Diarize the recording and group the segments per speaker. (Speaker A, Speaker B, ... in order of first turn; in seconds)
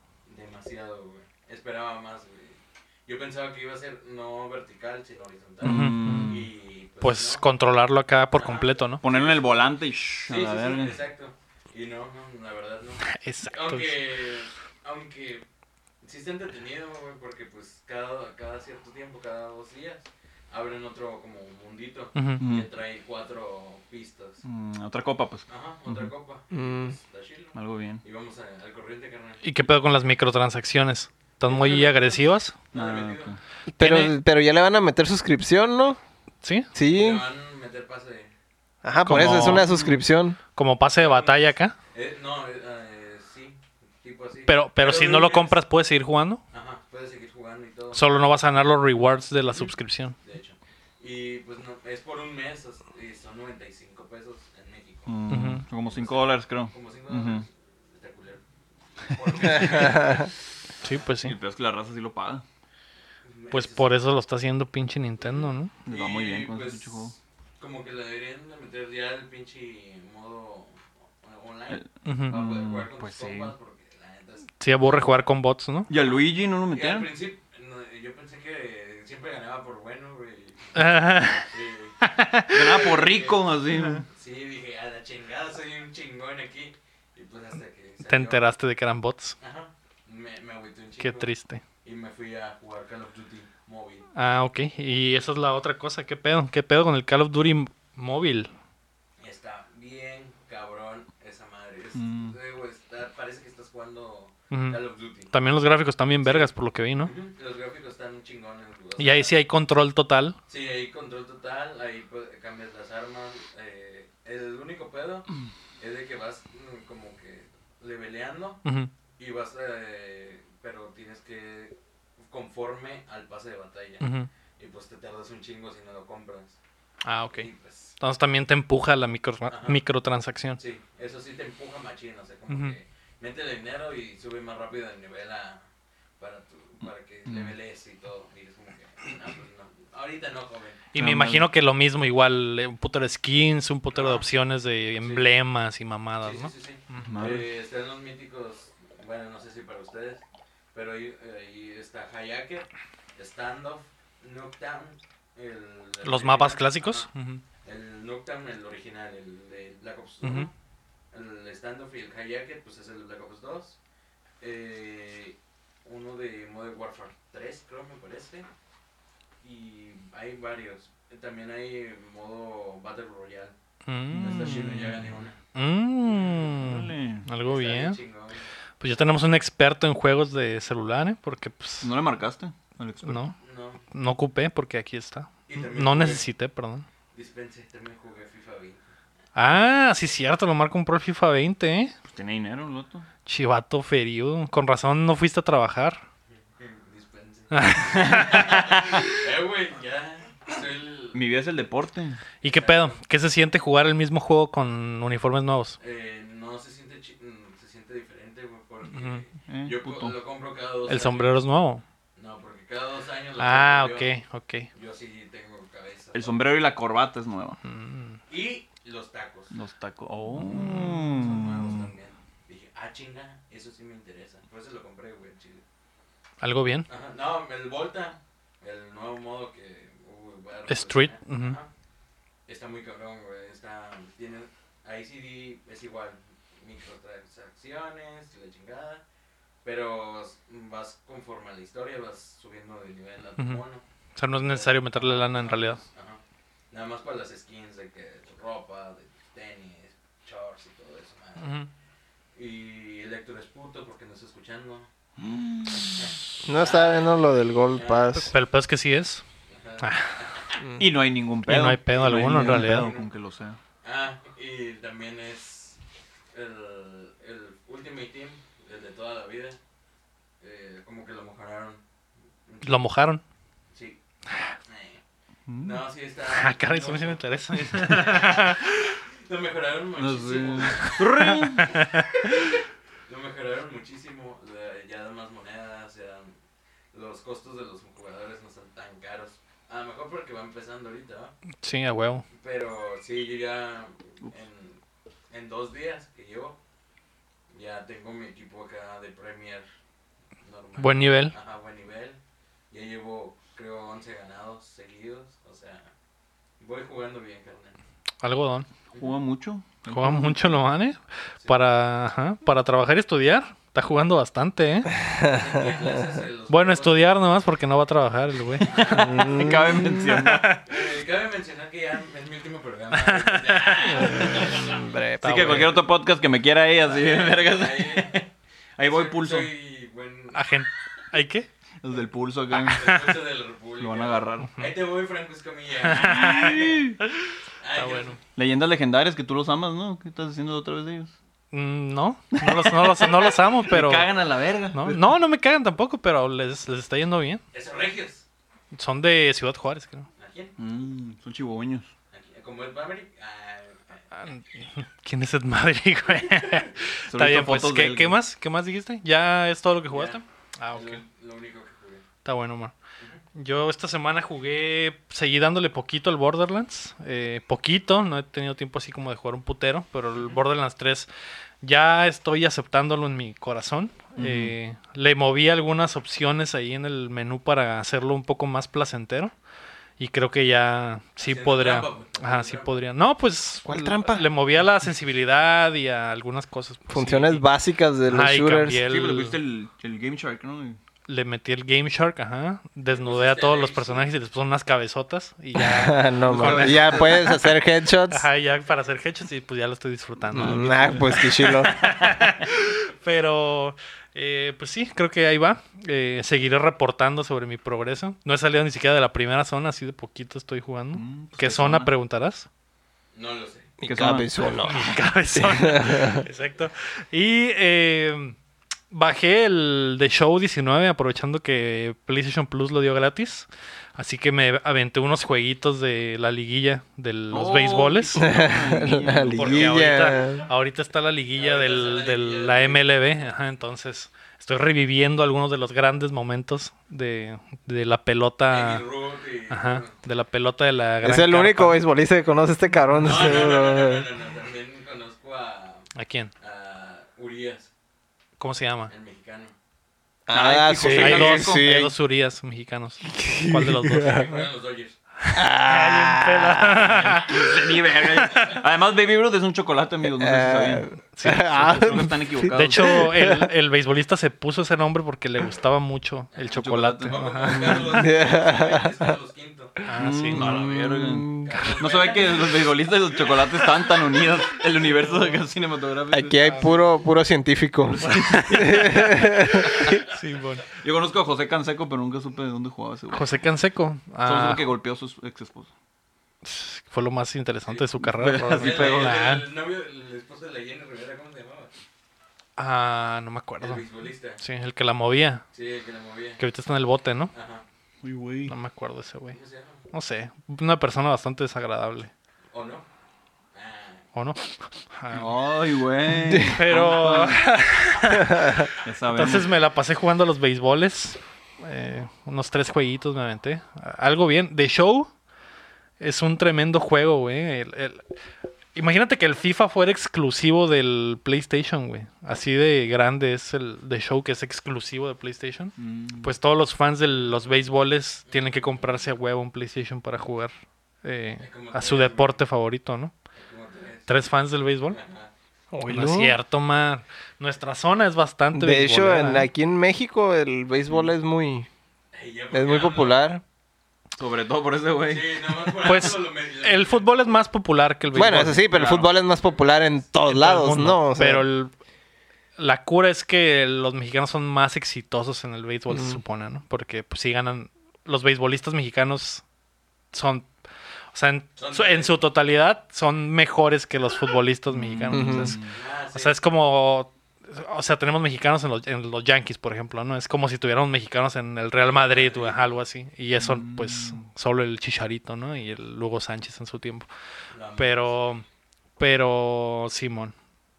Speaker A: 0.3-7.4, 8.3-9.7, 10.3-15.4, 16.0-24.4, 25.5-29.4, 31.4-33.3, 36.8-38.3, 41.0-45.6, 46.5-48.0, 50.2-55.2, 55.8-58.4, 59.0-61.1, 63.2-63.9, 65.2-75.2, 75.9-82.0, 82.8-83.5, 84.1-88.4, 89.4-91.3, 91.8-94.1, 99.2-105.3, 106.2-109.3, 110.5-115.3, 115.8-118.6, 119.2-124.1, 124.6-126.6, 127.3-128.0, 129.5-129.8, 130.6-135.6, 136.2-140.8, 143.9-144.2, 145.0-145.3, 146.2-157.1, 157.6-160.5, 161.1-163.8, 164.4-168.5, 169.4-173.5, 174.2-175.3, 176.2-176.5, 177.4-178.5, 183.4-183.8, 185.5-186.3, 187.1-188.8, 196.4-201.2, 202.4-203.0, 205.8-211.4, 212.2-214.1, 214.7-216.3, 218.3-219.5, 220.5-225.6, 226.9-231.7, 232.5-239.0, 239.6-243.8, 244.5-246.2, 246.7-251.6, 252.3-254.9, 255.9-257.1, 257.7-258.2, 259.5-260.6, 261.9-263.1, 263.8-265.8, 266.3-269.6, 270.4-271.8, 272.4-272.8, 273.7-274.0, 274.6-275.0, 275.6-278.5, 279.2-281.2, 283.1-286.3, 286.9-291.3, 292.3-296.6, 297.5-299.6, 300.4-302.2, 302.7-305.9, 306.6-307.8, 311.4-311.6, 315.2-317.2, 318.6-319.5, 320.6-324.8, 326.8-328.3, 328.8-330.4, 332.6-336.9, 337.6-338.2, 347.5-348.2, 350.2-350.5, 352.1-354.0, 359.9-360.2, 360.7-362.0, 381.2-382.8, 392.9-394.1, 413.1-413.7, 431.3-432.9, 438.5-439.9, 443.0-445.9, 446.4-447.7, 448.9-449.5, 453.9-454.9, 466.3-469.8, 471.4-473.6, 488.5-491.7, 493.6-494.4, 495.5-496.4, 497.3-497.6, 499.3-499.8, 502.5-502.8, 503.5-504.0, 528.3-529.0, 531.4-532.4, 533.4-534.1, 534.9-535.3, 542.1-543.2, 545.0-547.3, 561.6-562.2, 565.7-566.4, 571.9-572.7, 577.5-578.1
Speaker B: 5.6-6.5, 9.0-11.0, 22.4-22.7, 24.4-26.1, 27.5-28.0, 32.7-33.4, 39.1-40.0, 55.1-57.4, 59.5-59.9, 61.2-62.4, 65.8-67.1, 71.7-73.5, 75.9-77.1, 82.5-84.0, 102.0-102.3, 137.2-137.5, 140.9-141.5, 147.0-147.4, 174.1-175.2, 176.5-177.3, 181.8-183.3, 192.0-193.0, 201.1-202.2, 209.5-210.1, 216.1-217.6, 219.5-221.9, 255.2-256.1, 260.8-263.6, 275.5-275.8, 279.9-281.8, 309.0-310.6, 318.7-320.5, 325.2-328.2, 328.8-329.5, 331.8-332.9, 333.8-334.5, 336.0-337.0, 338.3-341.1, 342.3-345.0, 350.6-351.9, 357.1-358.2, 374.2-374.5, 388.8-390.8, 396.2-397.2, 400.3-401.2, 410.9-411.9, 413.9-414.3, 427.3-429.8, 450.3-451.6, 456.9-460.9, 461.6-463.0, 466.5-468.0, 470.0-476.6, 477.9-480.0, 480.8-483.4, 484.2-485.7, 488.0-489.2, 498.0-498.5, 505.1-507.4, 508.8-509.5, 525.8-526.3, 544.2-545.4, 548.2-549.1, 564.7-565.8, 573.4-574.2
Speaker C: 5.6-6.4, 7.0-9.0, 13.1-14.0, 22.1-22.4, 29.4-32.5, 33.8-34.1, 36.4-36.7, 39.0-39.7, 40.5-41.7, 44.5-46.4, 47.9-50.1, 55.3-55.6, 60.8-61.4, 63.5-65.7, 72.0-72.4, 74.6-75.9, 80.7-81.5, 82.0-82.8, 88.0-89.3, 91.0-91.6, 94.1-98.5, 104.5-104.8, 105.3-107.1, 109.0-110.3, 118.6-118.9, 124.0-124.3, 127.0-127.5, 128.0-130.6, 132.5-132.8, 140.9-147.1, 156.0-157.4, 160.2-160.5, 173.8-174.7, 175.5-178.0, 178.8-181.9, 183.0-183.3, 183.9-186.8, 189.3-191.9, 193.2-196.0, 197.5-198.6, 202.4-205.8, 208.9-209.2, 210.9-211.8, 213.4-214.7, 217.6-218.2, 220.3-220.9, 226.4-226.9, 230.7-231.6, 244.2-245.8, 251.4-251.7, 258.1-259.2, 259.8-260.1, 261.4-262.9, 272.6-273.2, 276.3-278.9, 281.2-282.1, 291.6-292.2, 300.8-301.3, 308.2-308.7, 309.9-314.9, 316.5-318.8, 320.0-320.7, 322.9-324.6, 325.2-325.7, 330.3-331.5, 332.7-333.0, 335.9-337.2, 337.8-338.2, 341.5-344.1, 344.7-347.4, 348.7-350.1, 354.1-361.0, 362.2-362.7, 363.3-371.1, 371.6-379.3, 380.0-387.4, 388.1-389.4, 391.1-397.4, 398.1-412.5, 414.6-418.4, 418.9-428.3, 429.3-438.8, 439.5-441.8, 445.9-446.3, 448.4-448.9, 450.9-454.2, 455.2-457.5, 458.0-458.6, 461.1-467.9, 469.9-470.5, 478.1-479.0, 479.6-480.6, 483.1-484.6, 486.4-489.4, 492.6-493.8, 494.4-495.4, 496.4-497.3, 498.5-499.4, 499.9-502.1, 504.1-505.3, 506.5-515.1, 516.0-518.0, 518.7-530.5, 531.0-533.1, 534.1-535.0, 535.9-539.5, 545.8-548.6, 550.3-551.7, 552.6-559.4, 560.1-560.5, 561.1-565.6, 566.1-577.1, 577.8-578.4, 579.0-580.3
Speaker D: 26.5-26.9, 33.7-36.0, 36.7-37.2, 38.8-40.4, 59.7-60.3, 256.4-258.3, 315.0-315.5, 318.9-319.9, 324.0-325.6, 383.6-384.3, 386.9-388.8, 395.5-398.2, 400.3-401.8, 413.8-416.2, 428.2-430.5, 441.0-444.1, 450.3-451.9, 453.1-454.4, 455.3-457.1, 460.0-463.5, 467.9-469.1, 470.3-471.7, 476.1-480.0, 506.2-506.6, 508.2-508.7, 535.7-536.4, 538.5-541.7, 542.5-543.4, 548.1-551.4, 555.9-556.2, 565.1-565.6